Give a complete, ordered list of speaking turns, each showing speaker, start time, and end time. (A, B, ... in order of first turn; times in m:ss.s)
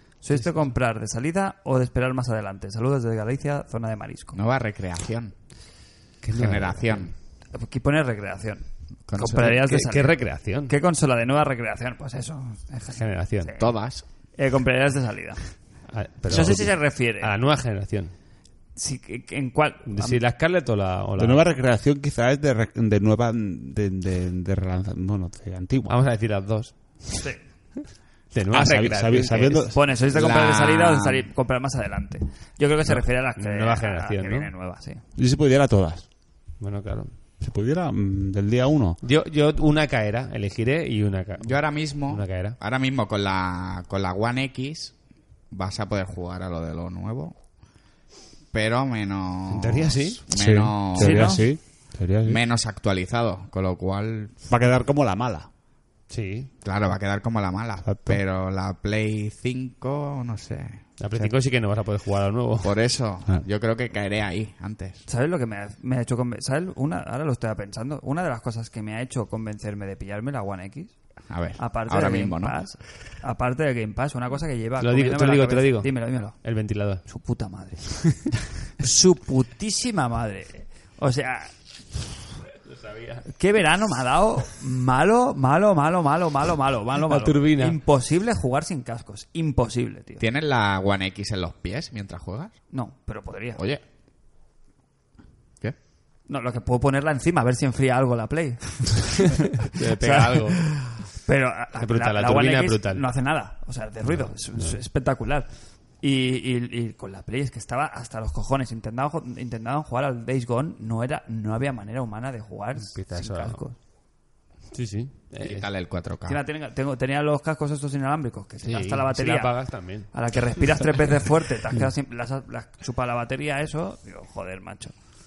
0:00.2-0:04.4 A
0:04.3-0:05.3 B
0:06.2-0:07.1 C
0:06.3-0:07.1 B
0:07.5-0:13.7 A
0:09.1-0:09.7 B
0:09.3-0:10.7 C
0:13.0-0:13.6 C
0:13.6-0:14.0 B
0:14.4-0:15.5 A
0:15.9-0:18.1 C
0:16.3-0:17.3 A
0:18.8-0:20.2 A
0:19.9-0:21.4 C
0:21.2-0:26.0 D
0:25.8-0:27.3 C
0:28.3-0:29.7 C
0:28.5-0:29.8 D
0:29.7-0:35.0 A
0:30.1-0:31.3 B
0:32.9-0:34.5 C
0:35.2-0:36.0 D
0:36.6-0:37.1 C
0:37.4-0:39.0 D
0:39.0-0:42.6 C
0:41.4-0:44.9 B
0:45.5-0:47.3 B
0:48.5-0:51.4 B
0:49.5-0:50.2 C
0:50.3-0:52.4 D
0:51.0-0:51.4 A
0:52.2-0:54.4 B
0:54.5-0:55.5 D
0:56.1-0:56.5 C
0:56.6-1:00.8 B
0:57.8-0:58.2 D
1:01.0-1:02.8 C
1:02.6-1:05.0 B
1:05.1-1:10.9 A
1:11.3-1:12.6 B
1:11.6-1:16.4 A
1:14.8-1:17.0 C
1:17.0-1:22.2 A
1:22.7-1:23.2 C
1:23.2-1:30.2 A
1:27.0-1:27.8 C
1:30.2-1:32.6 B
1:32.7-1:33.6 A
1:33.6-1:33.8 B
1:36.3-1:45.5 A
1:39.6-1:40.6 C
1:41.8-1:43.0 C
1:44.1-1:44.8 C
1:46.0-1:53.7 A
1:52.9-1:53.6 C
1:54.7-1:55.7 C
1:55.4-1:56.4 B
1:56.3-2:04.9 A
1:58.6-2:00.1 C